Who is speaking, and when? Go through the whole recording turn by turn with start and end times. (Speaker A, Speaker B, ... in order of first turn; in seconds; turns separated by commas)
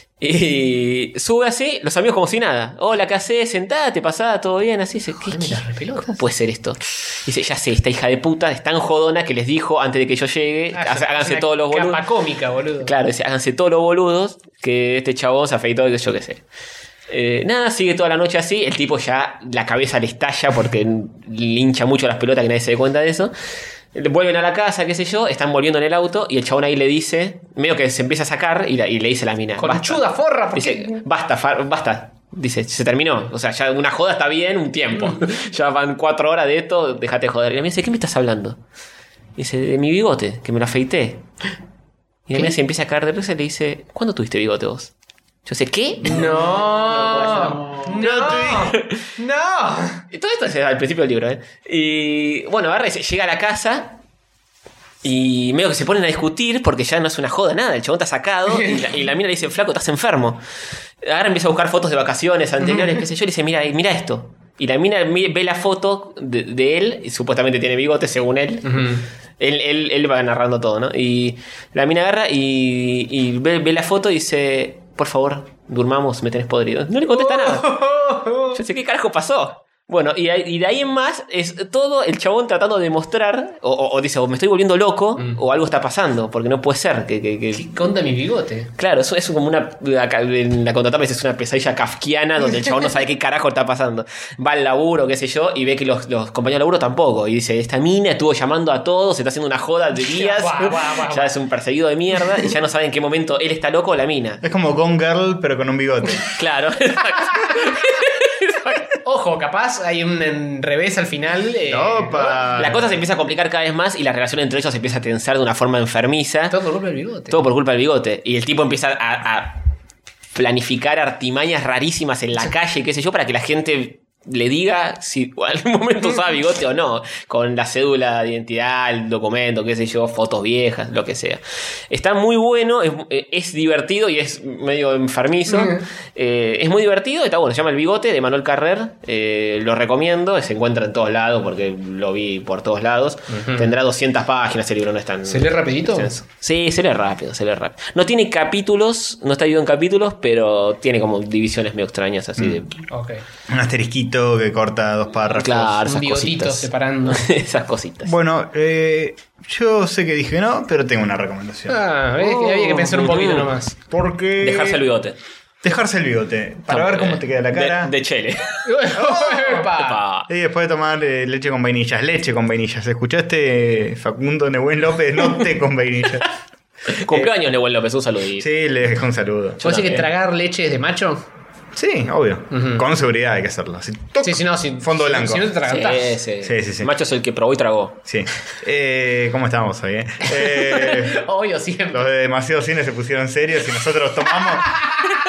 Speaker A: 0.2-12.0, Speaker B: 5.2-6.2, Speaker B: 10.7-12.9, Speaker A: 12.8-16.4, Speaker A: 17.1-23.3, Speaker A: 23.9-38.6, Speaker B: 29.6-31.0, Speaker A: 39.4-41.2, Speaker A: 42.3-44.9, Speaker A: 45.5-49.0, Speaker B: 46.0-50.0, Speaker A: 50.1-54.0, Speaker A: 55.0-60.4, Speaker B: 58.5-58.9, Speaker A: 61.0-77.8, Speaker B: 62.7-63.0, Speaker B: 68.6-69.0, Speaker B: 77.1-78.6, Speaker A: 78.5-87.7, Speaker B: 87.5-88.7, Speaker A: 88.8-104.4, Speaker B: 100.1-101.3, Speaker C: 104.4-106.3, Speaker A: 106.3-108.9, Speaker B: 109.0-112.5, Speaker C: 111.7-113.0, Speaker A: 112.5-116.6, Speaker B: 116.5-117.4, Speaker A: 117.3-119.6, Speaker A: 120.3-152.8, Speaker B: 135.5-135.8, Speaker B: 143.3-143.7, Speaker B: 145.3-146.2, Speaker B: 152.9-153.2, Speaker C: 153.5-155.8, Speaker A: 155.2-158.1, Speaker B: 155.8-157.3, Speaker C: 158.0-161.8, Speaker B: 161.7-163.8, Speaker A: 162.2-163.5, Speaker C: 163.9-164.9, Speaker A: 164.4-165.2, Speaker C: 165.6-167.9, Speaker A: 166.7-168.8, Speaker B: 168.7-170.0, Speaker C: 169.0-169.6, Speaker A: 169.6-170.3, Speaker C: 170.3-176.3, Speaker A: 176.9-178.5, Speaker C: 177.0-177.3, Speaker C: 178.4-179.8, Speaker A: 179.6-180.1, Speaker B: 179.6-181.2, Speaker C: 181.7-185.5, Speaker B: 182.5-182.8, Speaker B: 184.2-186.2, Speaker A: 185.7-188.0, Speaker C: 186.4-186.9, Speaker C: 188.1-191.2, Speaker B: 190.4-192.1, Speaker C: 191.9-194.8